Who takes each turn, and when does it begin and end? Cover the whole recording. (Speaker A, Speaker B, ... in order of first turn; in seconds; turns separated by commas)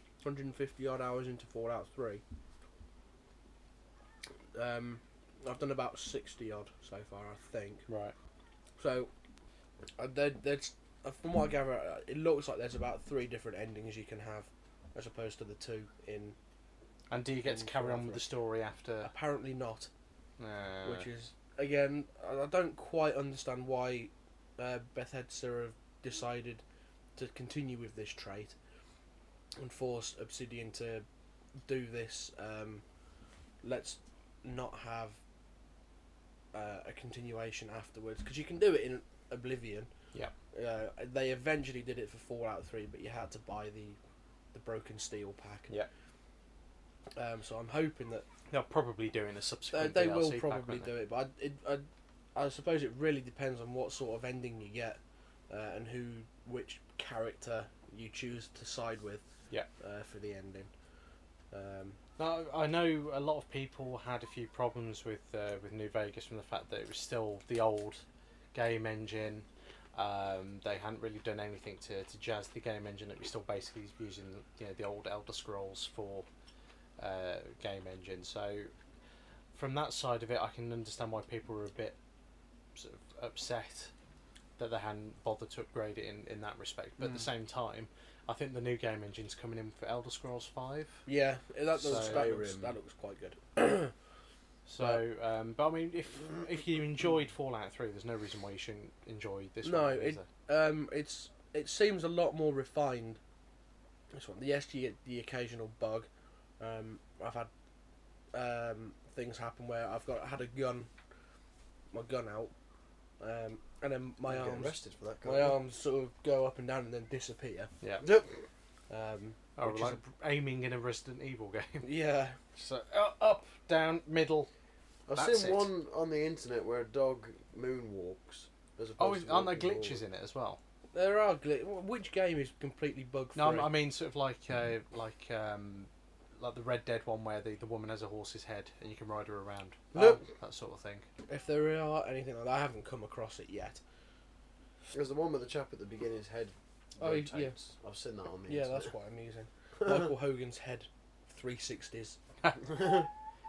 Speaker A: 0.2-2.2, Speaker A: 4.5-7.8, Speaker B: 7.9-8.1, Speaker A: 8.8-9.1, Speaker A: 10.0-16.4, Speaker B: 17.1-19.1, Speaker A: 17.4-18.3, Speaker A: 19.0-19.9, Speaker B: 20.4-21.1, Speaker A: 20.8-26.6, Speaker A: 27.1-28.5, Speaker A: 29.6-31.0, Speaker A: 31.7-32.8, Speaker A: 33.6-35.2, Speaker A: 36.5-39.9, Speaker A: 40.5-44.0, Speaker A: 44.5-45.8, Speaker A: 47.1-48.3, Speaker B: 48.5-50.9, Speaker A: 49.7-59.2, Speaker A: 59.8-60.7, Speaker A: 61.5-62.0, Speaker B: 62.2-68.0, Speaker B: 68.5-76.2, Speaker B: 77.0-78.7, Speaker B: 79.5-82.0, Speaker B: 82.7-83.9, Speaker B: 84.6-91.0, Speaker A: 91.0-93.9, Speaker C: 91.8-92.8, Speaker B: 91.8-92.4, Speaker B: 94.7-100.3, Speaker A: 99.6-103.2, Speaker A: 104.1-106.1, Speaker A: 106.6-107.5, Speaker A: 108.3-110.9, Speaker A: 111.9-112.5, Speaker A: 113.2-117.7, Speaker C: 114.2-115.6, Speaker C: 118.0-118.3, Speaker A: 118.9-120.0, Speaker B: 119.6-122.0, Speaker A: 121.8-122.3, Speaker B: 122.5-124.5, Speaker C: 125.1-130.0, Speaker B: 125.1-125.7, Speaker B: 129.0-130.6, Speaker A: 130.9-133.7, Speaker B: 133.3-141.1, Speaker C: 139.9-140.2, Speaker A: 141.3-143.8, Speaker C: 144.9-148.9, Speaker A: 147.0-147.6, Speaker A: 148.5-152.2, Speaker B: 152.4-153.1